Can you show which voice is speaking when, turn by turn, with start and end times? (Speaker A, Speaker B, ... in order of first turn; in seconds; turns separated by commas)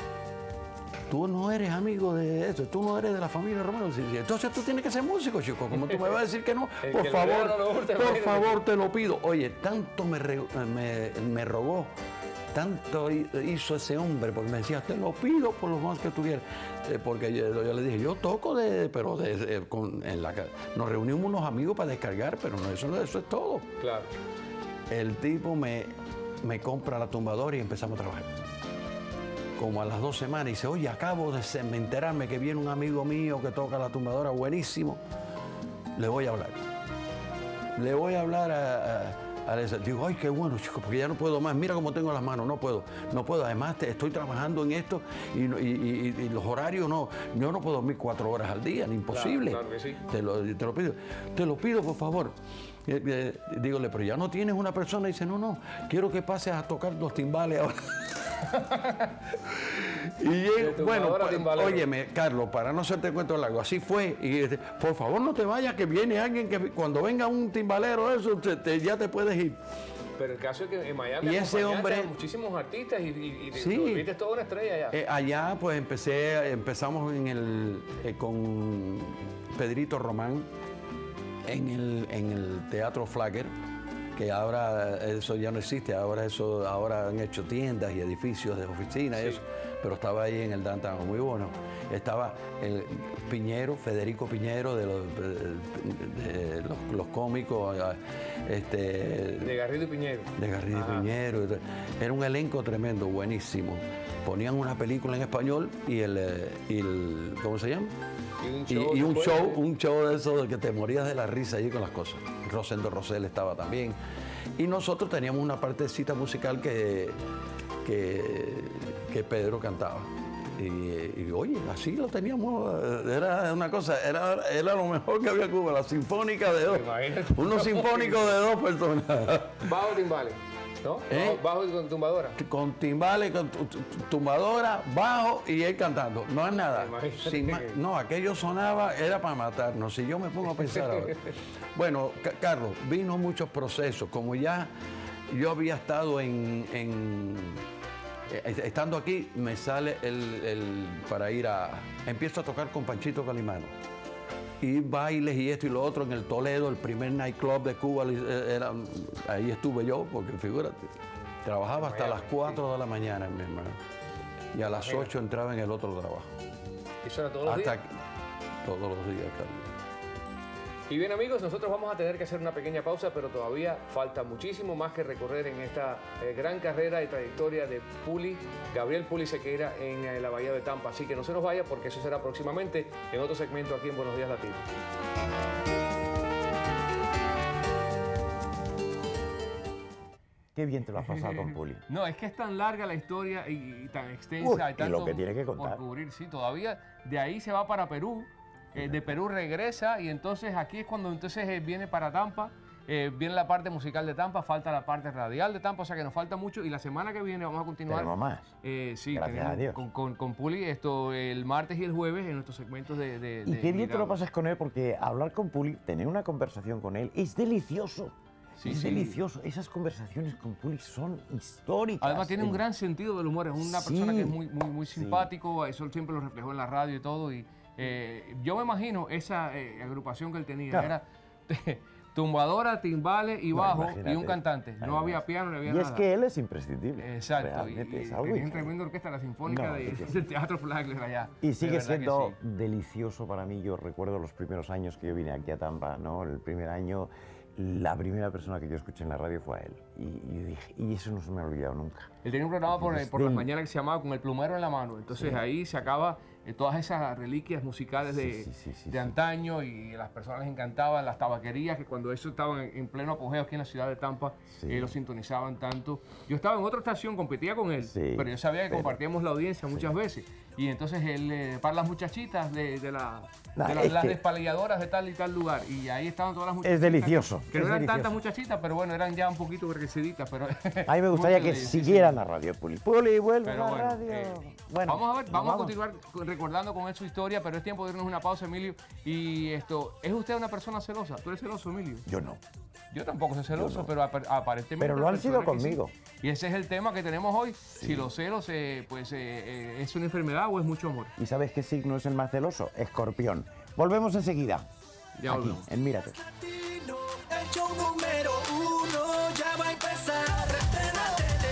Speaker A: 1.1-11.9, Speaker B: 5.7-6.1, Speaker B: 6.8-8.6, Speaker A: 12.5-23.7, Speaker B: 23.8-24.1, Speaker A: 24.9-28.3, Speaker A: 29.6-35.0, Speaker A: 36.0-36.6, Speaker A: 37.8-52.3, Speaker B: 49.1-50.0, Speaker A: 52.9-58.2, Speaker B: 58.6-59.1, Speaker A: 59.4-69.6, Speaker B: 60.5-61.9, Speaker B: 70.2-75.0, Speaker A: 71.2-72.1, Speaker A: 73.5-74.1, Speaker A: 74.9-80.5, Speaker A: 81.5-83.5, Speaker A: 84.2-99.5, Speaker B: 89.1-89.4, Speaker B: 99.4-101.1, Speaker A: 100.4-107.9, Speaker B: 108.4-109.6, Speaker A: 108.7-114.0, Speaker A: 114.6-117.2, Speaker A: 117.8-129.6, Speaker B: 126.5-128.3, Speaker B: 129.6-132.4, Speaker A: 131.1-131.4, Speaker A: 132.4-144.7, Speaker B: 136.5-137.8, Speaker B: 140.6-140.8, Speaker A: 145.3-147.6, Speaker A: 148.3-153.7, Speaker A: 154.6-163.8, Speaker B: 161.7-162.6, Speaker A: 164.5-166.3, Speaker B: 164.7-165.1, Speaker B: 167.0-167.8, Speaker A: 167.4-167.9, Speaker A: 168.6-169.7, Speaker B: 170.9-184.7, Speaker C: 190.5-191.8, Speaker B: 191.0-214.2, Speaker C: 194.4-195.8, Speaker C: 198.7-199.0, Speaker C: 207.9-208.5, Speaker C: 209.1-209.8, Speaker C: 213.4-222.6, Speaker B: 218.6-219.2, Speaker B: 222.0-236.1, Speaker C: 223.6-224.4, Speaker C: 224.9-225.3, Speaker C: 230.7-230.9, Speaker C: 233.5-238.7, Speaker B: 237.0-242.3, Speaker C: 239.4-240.2, Speaker C: 241.4-252.1, Speaker B: 252.2-282.2, Speaker C: 252.7-253.5, Speaker C: 255.1-255.4, Speaker C: 258.0-259.1, Speaker C: 264.5-265.0, Speaker C: 267.8-269.0, Speaker C: 273.6-274.2, Speaker C: 276.6-278.1, Speaker C: 280.9-285.7, Speaker B: 283.4-292.0, Speaker C: 292.1-292.4, Speaker B: 292.9-301.1, Speaker C: 293.5-293.9, Speaker C: 294.8-295.9, Speaker C: 297.8-298.1, Speaker C: 301.2-304.7, Speaker B: 305.2-305.6, Speaker C: 305.2-306.2, Speaker B: 306.5-311.2